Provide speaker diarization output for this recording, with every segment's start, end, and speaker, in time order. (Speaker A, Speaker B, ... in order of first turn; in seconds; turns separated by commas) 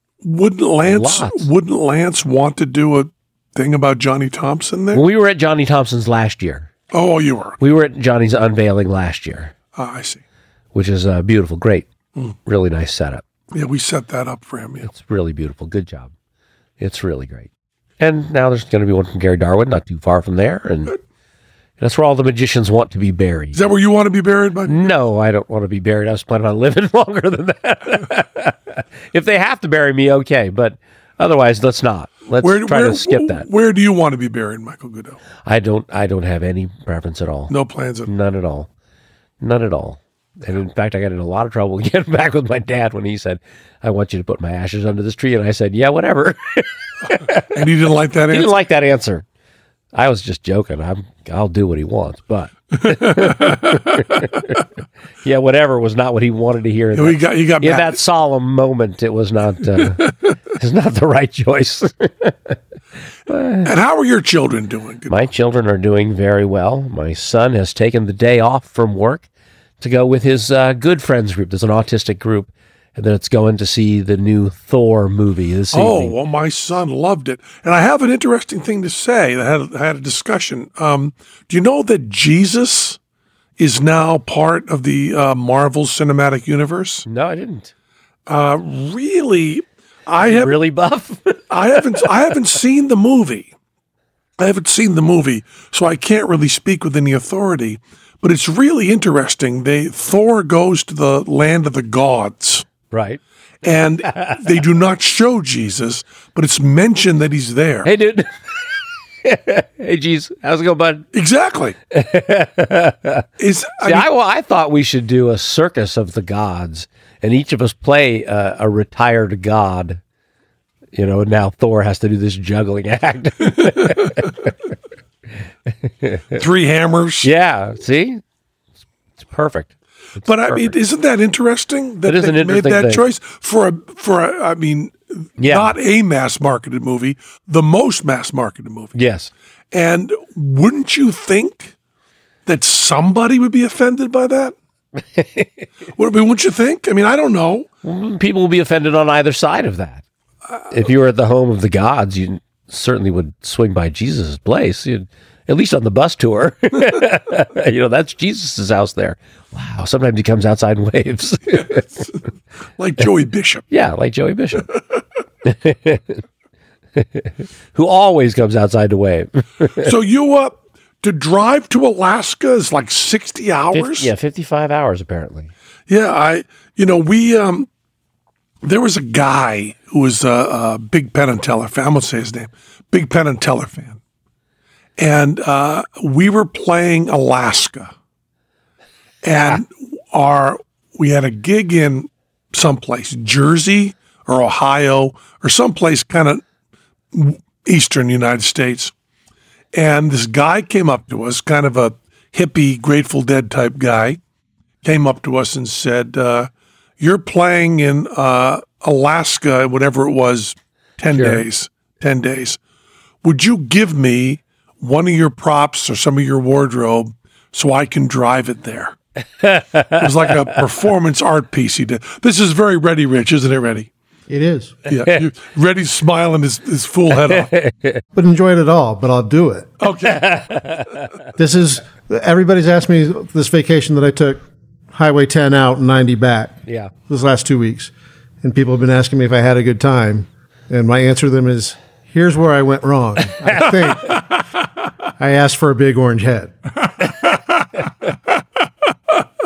Speaker A: 0.2-5.0, Speaker B: 0.8-1.5, Speaker B: 4.9-6.7, Speaker A: 6.9-7.6, Speaker B: 7.6-9.5, Speaker A: 9.8-10.2, Speaker B: 10.7-11.9, Speaker B: 12.4-13.2, Speaker A: 13.5-14.9, Speaker B: 14.9-16.1, Speaker B: 16.8-17.5, Speaker B: 18.0-21.0, Speaker B: 21.8-23.6, Speaker A: 23.5-24.9, Speaker B: 24.7-33.5, Speaker A: 32.4-35.2, Speaker B: 35.5-37.5, Speaker A: 37.5-38.1, Speaker B: 38.1-38.7, Speaker B: 39.4-47.6, Speaker A: 47.1-48.5, Speaker B: 48.3-49.2, Speaker B: 49.9-54.6, Speaker A: 52.8-54.3, Speaker B: 55.2-62.6, Speaker A: 56.9-58.0, Speaker B: 63.3-63.7, Speaker A: 63.6-65.2, Speaker B: 65.1-69.3, Speaker B: 69.8-76.2, Speaker A: 75.7-83.0, Speaker A: 83.6-87.1, Speaker B: 87.1-87.7, Speaker A: 88.3-90.5, Speaker B: 90.2-92.4, Speaker A: 91.5-93.5, Speaker A: 94.4-102.7, Speaker B: 102.9-103.2, Speaker A: 103.6-107.9, Speaker B: 104.1-104.4, Speaker B: 107.8-111.1, Speaker A: 111.1-111.8, Speaker B: 111.9-113.3, Speaker A: 113.4-114.1, Speaker B: 113.8-120.0, Speaker B: 121.0-124.5, Speaker B: 125.8-126.4, Speaker A: 126.3-127.3, Speaker B: 127.2-128.2, Speaker B: 129.2-130.8, Speaker A: 130.2-138.9, Speaker B: 132.1-133.0, Speaker B: 135.4-135.7, Speaker B: 138.9-139.3, Speaker A: 139.7-141.7, Speaker A: 142.5-144.6, Speaker B: 145.0-145.7, Speaker A: 145.9-147.7, Speaker B: 147.8-150.0, Speaker B: 150.7-161.9, Speaker A: 161.5-162.2, Speaker A: 162.8-163.6, Speaker B: 163.7-164.7, Speaker B: 165.4-166.2, Speaker B: 167.0-169.9, Speaker A: 169.8-174.1, Speaker B: 173.7-175.5, Speaker A: 175.9-177.7, Speaker A: 178.6-184.0, Speaker A: 185.0-187.9, Speaker A: 189.2-196.4, Speaker A: 197.1-198.9, Speaker A: 199.7-204.2, Speaker A: 204.8-212.6, Speaker B: 211.1-211.4, Speaker A: 213.2-219.0, Speaker B: 219.4-220.4, Speaker A: 220.0-223.9, Speaker C: 224.3-224.8, Speaker A: 224.9-227.5, Speaker B: 227.3-228.0, Speaker C: 228.1-229.8, Speaker A: 229.8-230.3, Speaker B: 230.0-231.1, Speaker C: 231.4-234.4, Speaker C: 234.9-244.2, Speaker C: 245.2-246.5